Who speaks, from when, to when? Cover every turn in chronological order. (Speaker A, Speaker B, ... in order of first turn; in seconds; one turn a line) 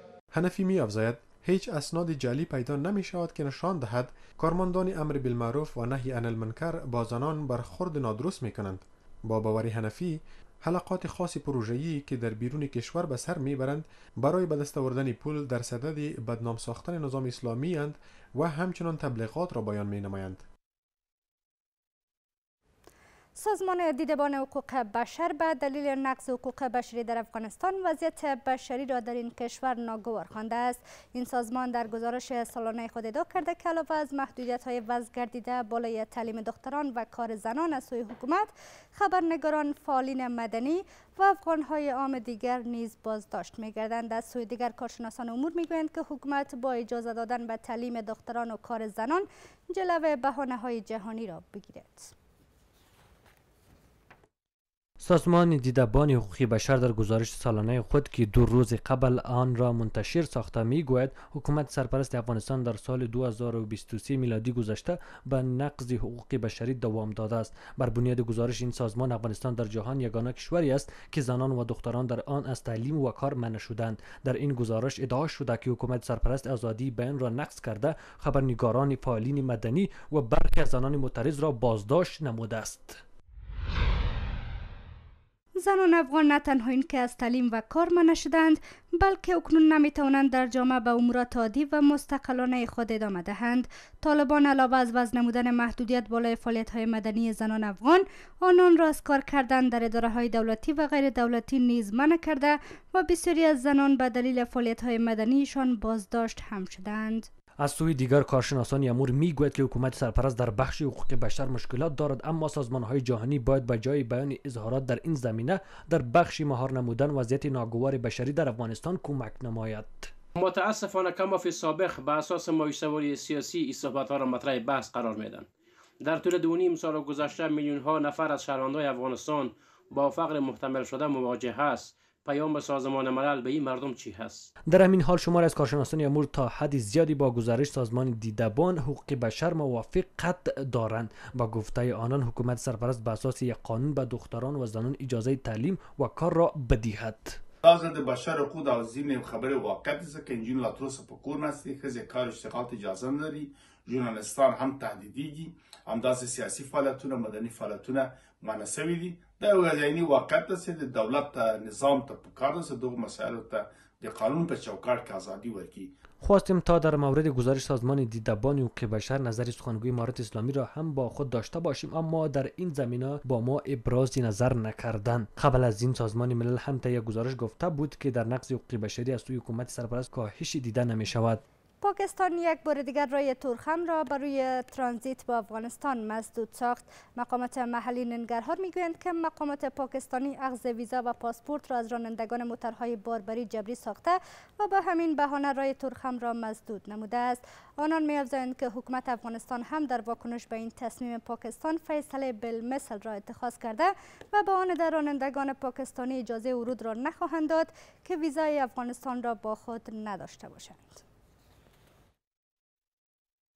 Speaker A: 0.3-20.4
Speaker B: 23.4-52.1
Speaker C: 55.0-83.0
Speaker B: 85.6-107.3
Speaker C: 107.6-120.1
Speaker D: 120.4-125.5
Speaker D: 126.0-134.5
Speaker C: 134.7-147.4
Speaker E: 147.6-165.9
Speaker C: 166.2-181.4
Speaker B: 181.8-211.0